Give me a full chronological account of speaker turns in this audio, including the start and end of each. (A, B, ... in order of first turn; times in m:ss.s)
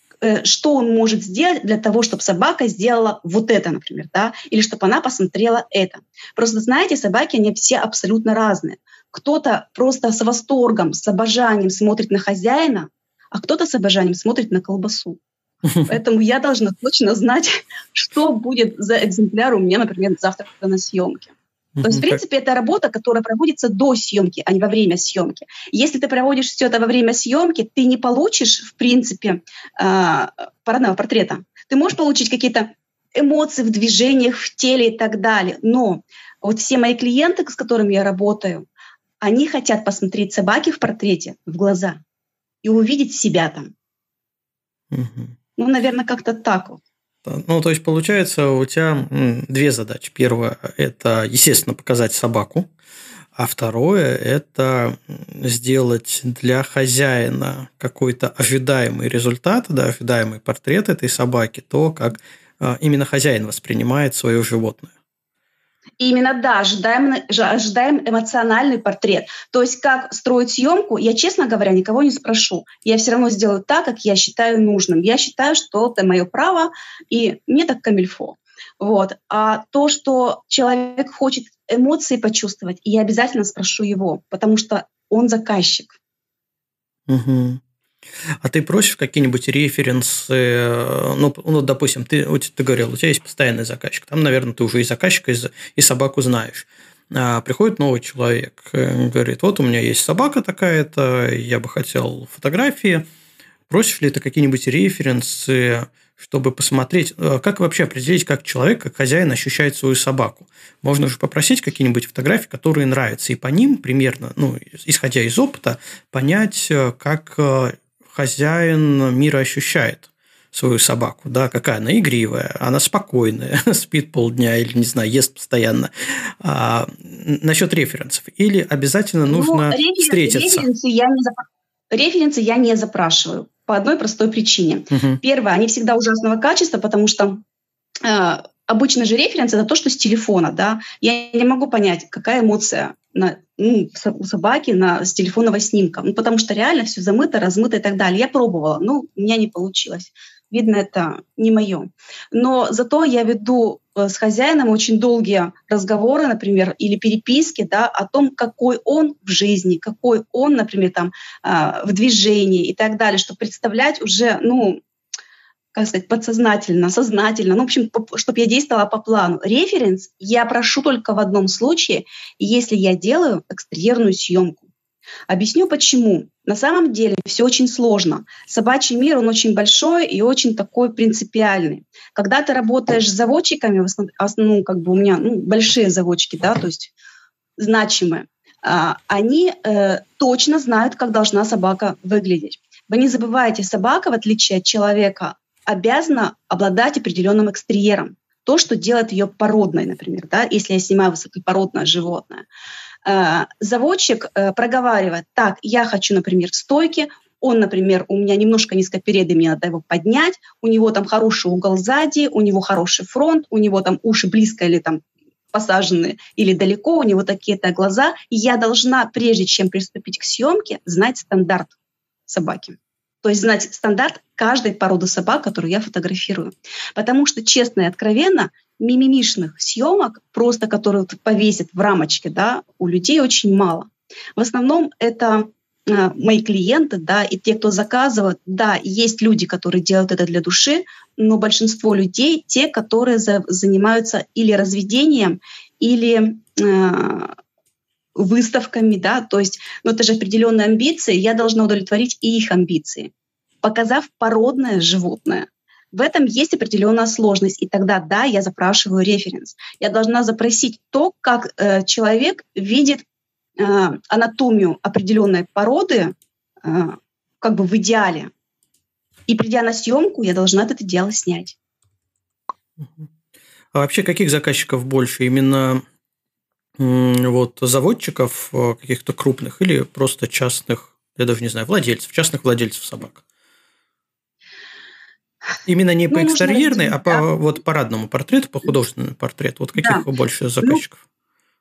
0:00.2-0:15.2 A
0:15.9-0:38.7 A
0:21.8-0:22.2 B
0:39.2-0:42.0 A
0:42.6-0:43.7 A
0:44.9-0:45.4 B
0:45.6-0:46.8 A
0:47.3-0:52.7 B
0:53.4-1:04.9 B
1:06.0-1:26.0 A
1:27.1-1:27.6 B
1:28.4-1:43.0 B
1:43.7-2:10.7 B
2:09.3-2:17.4 A
2:14.9-2:15.2 B
2:18.0-2:44.8 A
2:45.7-2:54.7 A
2:55.3-3:06.9 A
3:07.6-3:22.4 A
3:23.0-3:35.0 A
3:35.5-3:41.7 A
3:42.3-4:07.3 A
4:08.2-4:13.1 A
4:13.6-4:23.0 A
4:23.6-4:28.3 A
4:29.3-4:31.6 A
4:32.8-4:33.1 B
4:33.7-4:35.8 B
4:36.8-4:43.2 B
4:45.7-4:51.0 B
4:46.1-4:47.2 A
4:49.8-4:50.0 A